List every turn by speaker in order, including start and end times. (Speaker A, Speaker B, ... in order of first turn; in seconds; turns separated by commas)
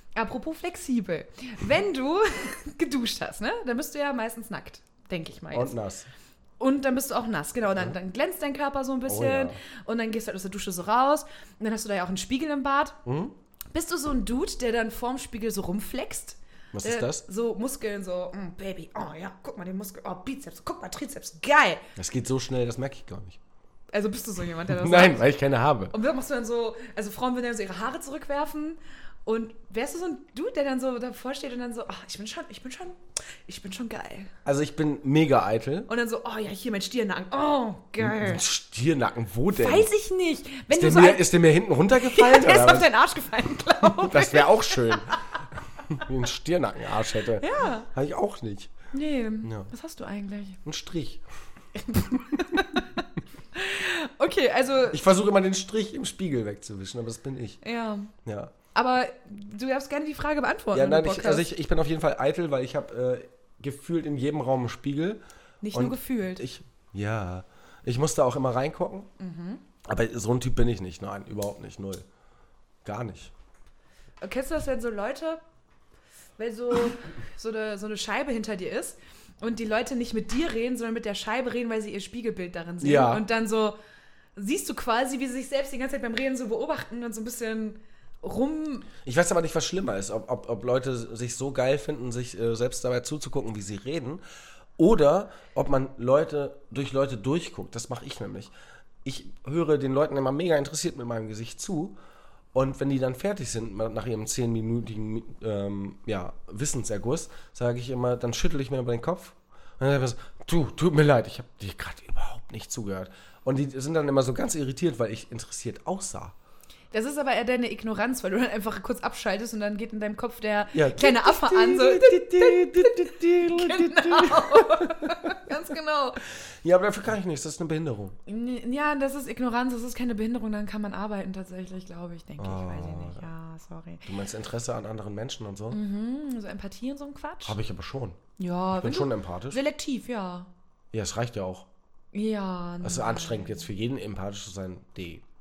Speaker A: 0.2-5.8, Speaker B: 5.5-6.1, Speaker A: 6.6-13.0, Speaker B: 9.1-9.6, Speaker B: 13.1-13.3, Speaker A: 13.7-21.8, Speaker B: 16.7-17.2, Speaker B: 22.0-23.4, Speaker A: 23.9-25.3, Speaker B: 24.7-25.9, Speaker A: 25.9-34.3, Speaker B: 34.5-35.9, Speaker A: 35.9-38.4, Speaker B: 38.0-39.9, Speaker A: 39.5-41.3, Speaker B: 40.7-42.9, Speaker A: 42.0-45.1, Speaker B: 43.8-45.2, Speaker B: 45.9-48.7, Speaker A: 47.4-47.9, Speaker A: 48.9-50.6, Speaker B: 49.4-49.7, Speaker B: 50.6-51.2, Speaker A: 51.9-55.0, Speaker B: 54.9-57.6, Speaker A: 57.6-58.1, Speaker B: 58.2-58.5, Speaker A: 58.7-61.5, Speaker B: 60.7-65.2, Speaker A: 65.6-66.5, Speaker B: 65.7-69.1, Speaker A: 69.2-69.6, Speaker B: 69.8-72.0, Speaker B: 72.8-73.3, Speaker A: 74.2-75.4, Speaker A: 76.4-83.8, Speaker B: 82.8-83.3, Speaker A: 84.4-88.9, Speaker B: 89.0-94.2, Speaker B: 94.8-98.5, Speaker B: 99.0-102.0, Speaker B: 102.5-116.3, Speaker A: 116.9-126.2, Speaker B: 120.7-125.3, Speaker B: 126.6-128.2, Speaker A: 128.3-134.1, Speaker B: 132.4-133.3, Speaker B: 134.1-135.8, Speaker A: 135.7-137.6, Speaker B: 137.4-138.2, Speaker A: 138.4-140.5, Speaker B: 138.7-139.6, Speaker B: 140.9-141.7, Speaker A: 142.1-143.7, Speaker B: 142.8-145.2